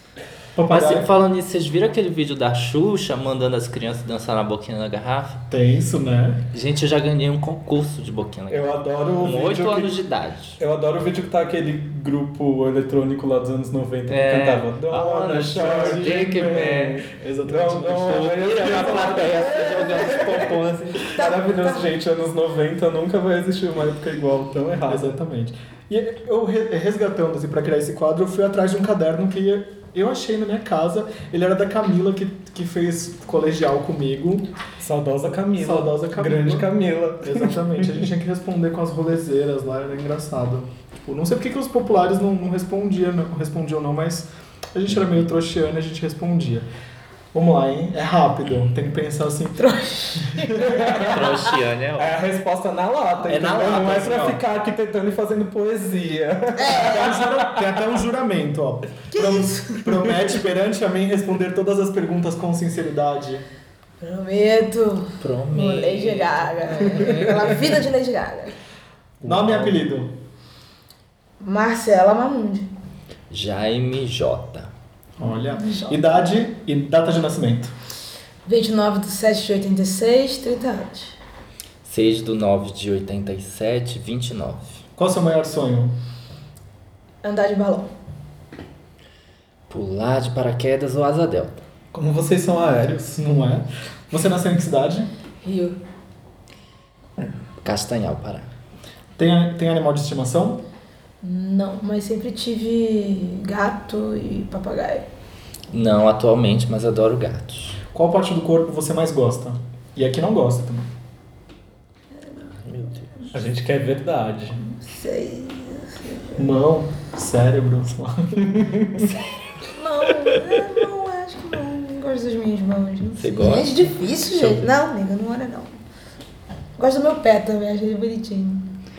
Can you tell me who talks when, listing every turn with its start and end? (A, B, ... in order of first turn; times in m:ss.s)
0:00.6-0:00.9 A
0:00.6-0:01.1 B
0:00.7-0:05.4 C
0:05.5-0:06.4 B
0:06.5-0:10.6 C
0:08.5-0:10.0 A
0:10.6-0:20.5 A
0:14.1-0:17.1 C
0:15.3-0:19.4 B
0:18.0-0:21.2 C
0:21.1-0:25.1 A
0:21.1-0:21.9 D
0:24.9-0:34.5 B
0:34.8-0:38.1 A
0:35.5-0:46.7 B
0:47.3-0:49.6 B
0:49.6-0:50.8 D
0:50.2-0:50.8 B
0:50.6-0:57.6 A
0:50.8-0:52.2 C
0:53.3-0:54.4 C
0:56.6-0:57.2 D
0:56.7-1:03.4 B
0:59.1-0:59.9 D
1:04.0-1:08.5 D
1:05.2-1:07.6 C
1:09.2-1:10.1 B
1:09.3-1:09.7 C
1:11.4-1:12.7 D
1:13.3-1:14.7 C
1:15.2-1:17.7 B
1:15.5-1:16.3 D
1:18.4-1:21.2 D
1:21.8-1:24.8 C
1:25.0-1:25.9 B
1:27.2-1:27.9 D
1:29.7-1:31.6 C
1:31.9-1:33.2 A
1:33.1-1:35.1 B
1:35.4-1:35.8 D
1:37.6-1:38.5 C
1:39.2-1:40.6 B
1:41.2-1:45.1 D
1:45.7-1:47.8 C
1:47.9-1:50.9 B
1:52.2-1:53.3 D
1:52.7-1:53.1 C
1:53.3-1:54.6 A
1:54.8-1:56.5 D
1:56.4-1:59.1 B
1:58.4-1:59.1 A
1:59.6-2:05.7 D
2:03.2-2:04.7 C
2:06.8-2:08.7 D